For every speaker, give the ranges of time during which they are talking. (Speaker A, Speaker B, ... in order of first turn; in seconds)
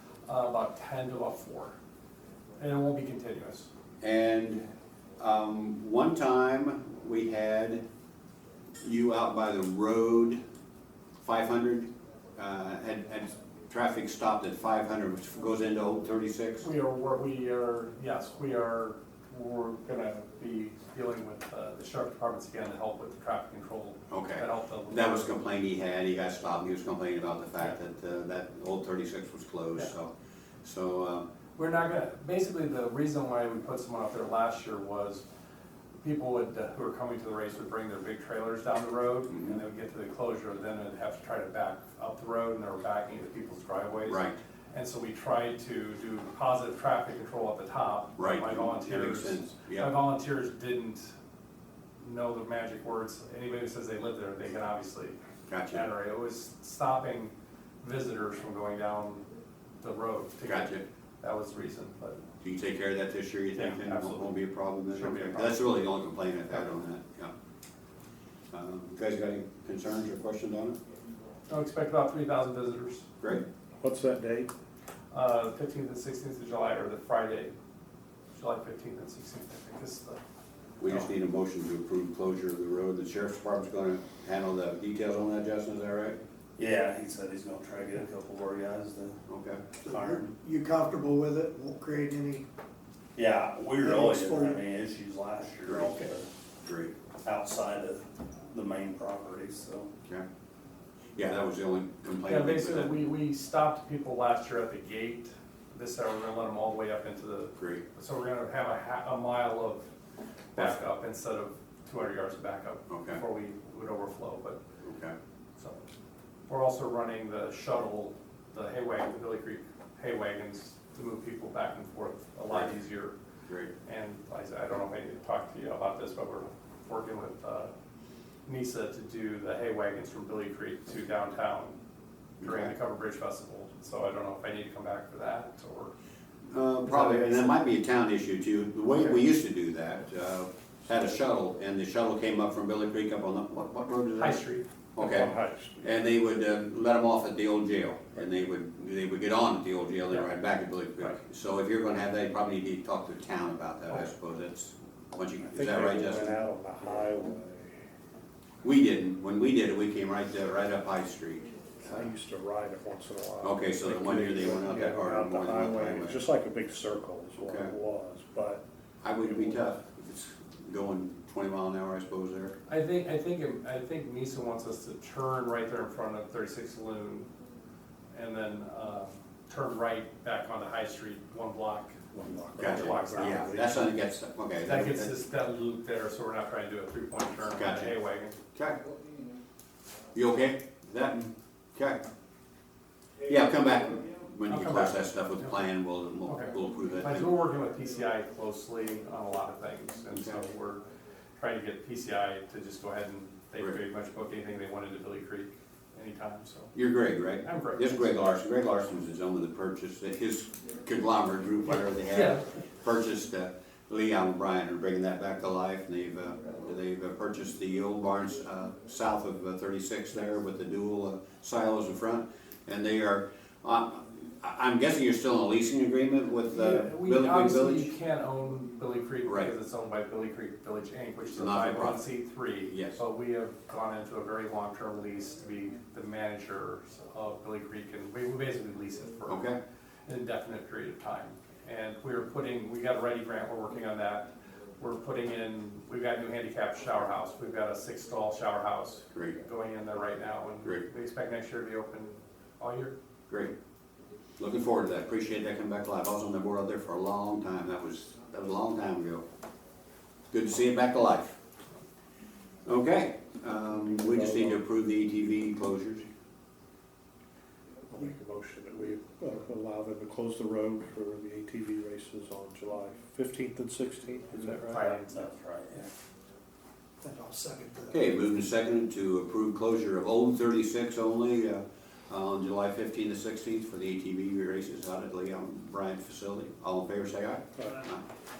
Speaker A: 0.3-1.8, 2.6-3.7, 16.6-25.3, 31.6-35.2, 36.0-51.1, 52.0-55.2, 55.7-59.3, 59.8-62.2, 63.6-64.3, 64.9-65.6, 71.5-73.1, 75.1-77.5, 78.4-80.2, 102.3-109.9, 110.5-114.6, 116.5-123.2, 123.8-127.7, 128.5-131.8, 132.4-135.9, 136.9-137.5, 144.2-145.2, 172.7-177.3, 178.1-182.1, 182.6-183.5, 184.7-188.4, 194.5-195.5, 196.3-200.9, 201.4-206.7, 207.4-207.9, 212.1-212.4, 226.5-239.4, 240.1-252.9, 274.4-275.1
Speaker B: 4.0-4.7, 5.2-7.8, 8.8-10.4, 11.2-16.7, 24.1-30.1, 30.6-31.3, 39.3-39.6, 44.1-44.4, 48.2-49.9, 55.5-55.8, 60.4-60.8, 62.4-67.3, 68.5-70.8, 80.8-86.2, 89.3-89.6, 96.6-96.9, 101.2-102.9, 107.6-107.8, 112.9-113.2, 114.8-115.2, 132.4-132.7, 136.5-144.4, 145.0-156.4, 158.6-162.0, 163.4-166.2, 167.4-167.7, 169.0-172.5, 182.6-185.1, 187.5-187.9, 188.6-188.8, 190.1-192.0, 193.2-197.3, 200.1-200.4, 206.7-227.9, 229.2-229.5, 231.3-232.0, 232.7-233.0, 239.3-239.6, 254.4-259.2, 260.3-261.4, 262.6-266.1, 277.9-288.0
Speaker C: 73.8-74.5, 145.0-145.8, 155.5-157.8, 161.8-168.6, 169.2-169.6, 182.1-183.9, 264.1-264.6, 267.9-274.8, 287.6-287.9
Speaker D: 86.6-89.2, 89.9-90.3, 93.2-96.3, 97.2-99.9, 275.1-275.9
Speaker E: 89.8-92.5, 93.8-94.6, 277.0-278.0